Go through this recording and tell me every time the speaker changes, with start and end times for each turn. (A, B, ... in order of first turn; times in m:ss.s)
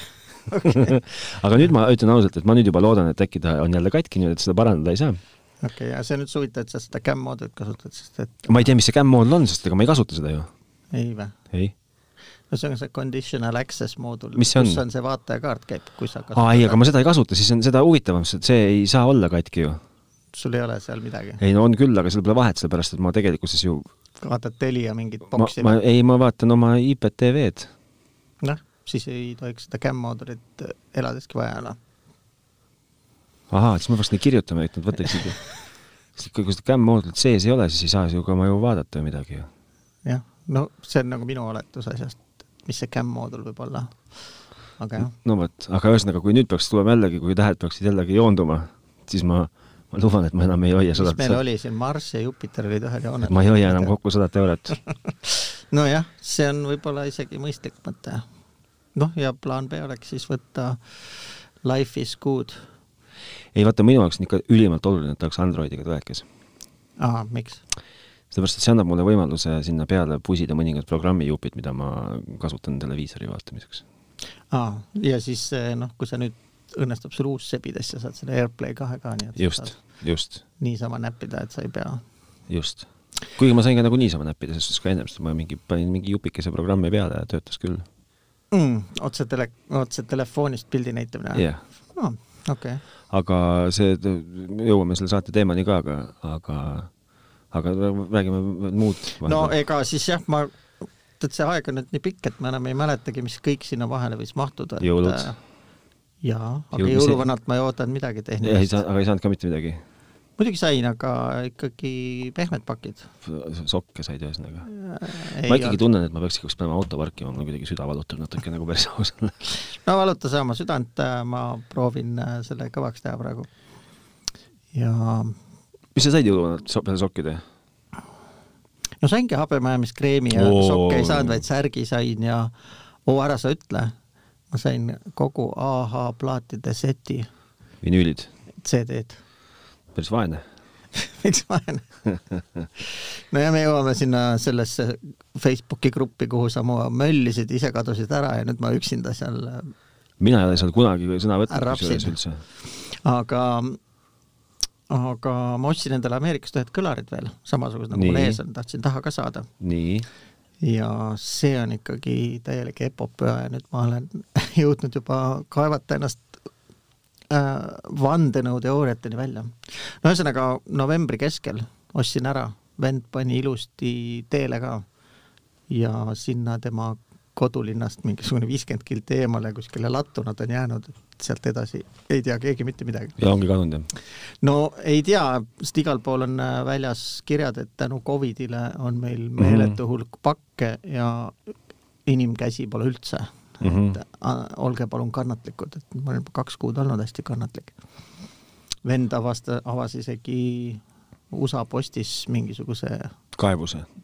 0:00.5-0:00.9 A
0:00.6-0:05.2 B
0:05.6-0:08.7 A
0:08.5-0:10.5 B
0:10.9-0:11.3 A
0:12.5-0:16.8 A
0:14.4-0:14.8 B
0:16.3-0:19.8 B
0:20.3-0:21.4 A
0:21.4-0:23.8 B
0:24.2-0:25.8 A
0:25.3-0:27.7 B
0:28.4-0:31.8 A
0:33.5-0:35.4 B
0:36.2-0:39.5 B
0:40.0-0:44.0 A
0:44.8-0:45.1 A
0:45.0-0:51.4 B
0:50.9-0:53.9 A
0:53.2-0:54.8 B
0:55.2-0:58.2 A
0:59.0-1:00.8 A
1:01.6-1:02.6 A
1:03.5-1:06.2 B
1:07.0-1:07.6 A
1:08.3-1:13.8 B
1:14.5-1:19.7 A
1:19.4-1:20.4 B
1:20.6-1:22.0 A
1:22.5-1:27.8 B
1:28.5-1:32.8 A
1:31.3-1:31.6 B
1:33.1-1:36.9 B
1:37.5-1:39.5 B
1:39.2-1:40.5 A
1:41.2-1:45.4 A
1:44.8-1:45.3 B
1:46.2-1:48.8 A
1:46.7-1:47.2 B
1:48.4-1:49.8 B
1:50.4-1:53.1 A
1:53.2-1:54.7 B
1:54.6-1:55.8 A
1:55.4-1:59.5 B
1:59.7-2:03.5 A
2:04.7-2:05.4 A
2:05.9-2:07.4 B
2:09.0-2:12.5 A
2:10.3-2:11.4 B
2:13.0-2:13.9 A
2:14.5-2:17.3 A
2:17.8-2:18.3 B
2:18.6-2:19.2 A
2:19.9-2:20.4 B
2:20.9-2:21.8 A
2:22.8-2:29.7 A
2:30.2-2:32.4 B
2:31.5-2:33.8 A
2:34.9-2:39.5 A
2:37.9-2:38.4 B
2:39.6-2:40.1 B
2:40.6-2:46.3 A
2:47.3-2:54.8 A
2:55.7-3:03.2 A
3:03.2-3:03.9 B
3:04.4-3:11.4 A
3:09.4-3:09.8 B
3:12.0-3:17.7 A
3:13.6-3:14.0 B
3:18.8-3:23.1 A
3:23.3-3:23.8 B